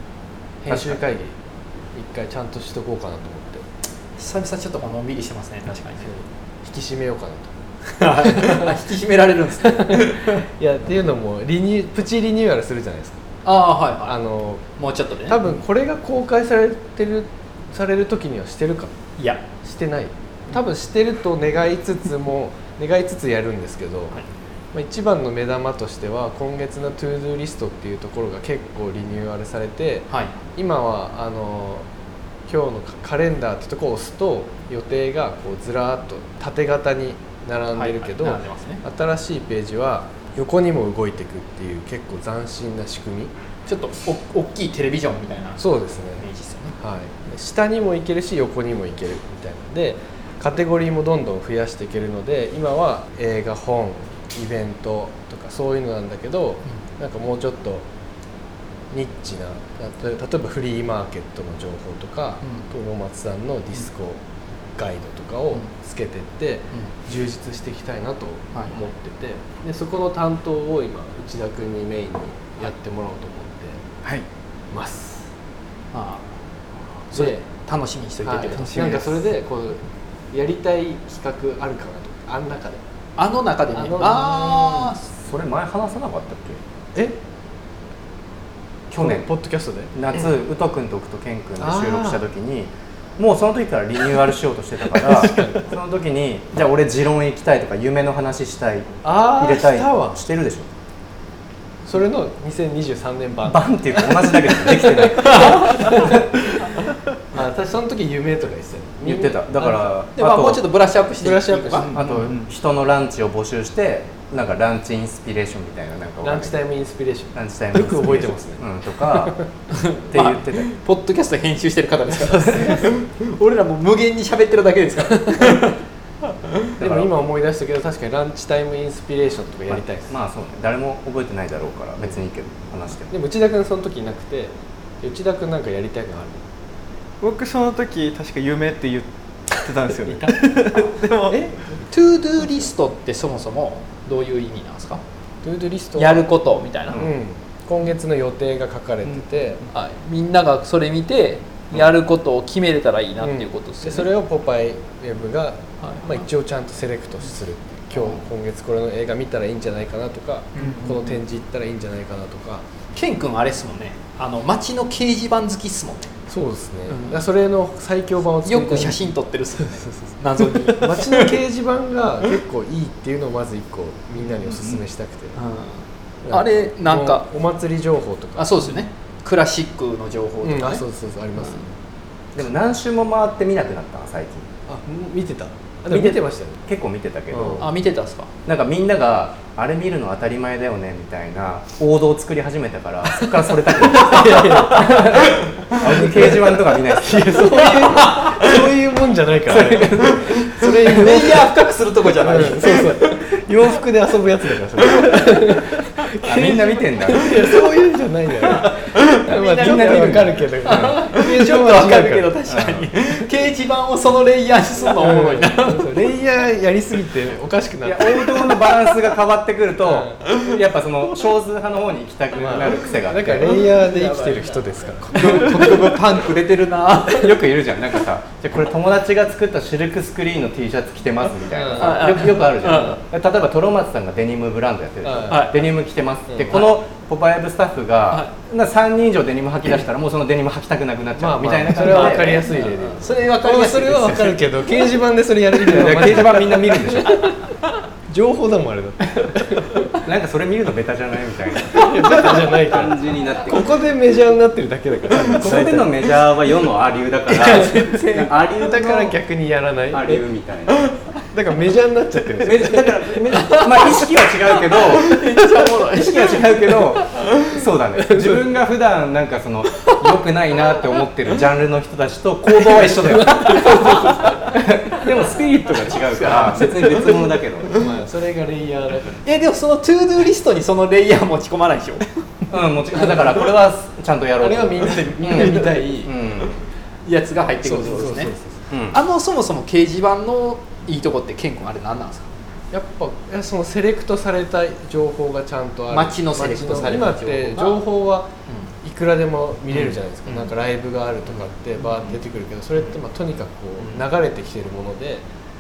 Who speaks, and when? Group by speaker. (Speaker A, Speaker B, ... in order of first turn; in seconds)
Speaker A: 0.6-1.4, 1.9-3.6, 6.0-8.7, 9.7-13.2, 14.0-14.6, 15.3-18.9, 19.6-24.2, 24.7-31.9, 32.5-43.3, 45.6-46.3, 46.8-57.9, 58.9-64.2, 64.8-73.8, 74.7-75.3, 78.2-82.8, 83.7-84.8, 89.0-89.9, 91.6-92.2, 95.2-95.6, 99.0-100.2, 101.8-110.0, 111.2-112.0, 116.2-119.5, 122.3-122.9, 126.8-130.1, 133.1-136.4, 141.3-141.8, 145.4-146.3, 146.9-149.6, 153.2-162.6, 166.3-169.1, 169.6-170.1, 170.7-175.4, 176.2-178.7, 180.4-181.8, 184.7-186.6, 187.3-187.7, 193.1-195.2, 195.8-201.3, 202.2-212.3, 215.0-218.7, 219.8-220.2, 222.4-225.8, 231.5-232.2, 235.0-235.5, 241.2-247.4, 248.1-249.9, 251.7-255.9, 257.3-260.2, 261.3-263.6, 268.0-268.5, 272.6-275.1, 276.1-276.8, 277.8-279.2, 282.9-283.4, 284.4-286.4, 287.6-288.6, 292.7-298.3, 298.8-305.2
Speaker B: 0.7-1.0, 84.3-86.6, 88.9-89.3, 89.9-100.7, 103.5-105.8, 109.0-110.6, 111.8-116.6, 117.3-119.4, 120.1-120.7, 126.8-127.1, 129.7-133.1, 182.3-184.5, 185.9-187.7, 188.5-197.9, 199.5-201.3, 206.2-207.4, 209.2-211.0, 212.5-212.9, 217.8-223.6, 227.1-242.7, 245.7-247.2, 250.0-253.7, 255.3-259.2, 259.9-261.2, 262.4-265.2, 265.9-277.8, 282.5-286.6, 288.7-289.0
Speaker C: 4.2-6.1, 7.9-10.4, 13.4-14.1, 14.8-15.4, 19.2-19.4, 30.1-30.4, 37.7-38.8, 43.7-45.6, 46.2-46.8, 75.9-76.2, 77.1-79.2, 83.2-85.0, 110.2-112.0, 119.7-126.7, 141.9-145.0, 145.9-147.1, 149.7-154.1, 160.6-161.0, 162.9-166.1, 166.9-167.2, 168.4-171.3, 175.3-177.3, 178.4-180.8, 187.6-188.3, 197.8-198.4, 200.2-203.2, 208.8-215.9, 223.6-227.4, 231.8-233.0, 235.3-235.6, 241.9-244.4, 257.4-258.3, 263.3-264.1, 264.7-267.6, 279.2-282.0, 287.1-288.3, 288.9-292.3, 295.9-297.8, 300.2-300.5, 303.8-304.1
Speaker D: 137.3-141.5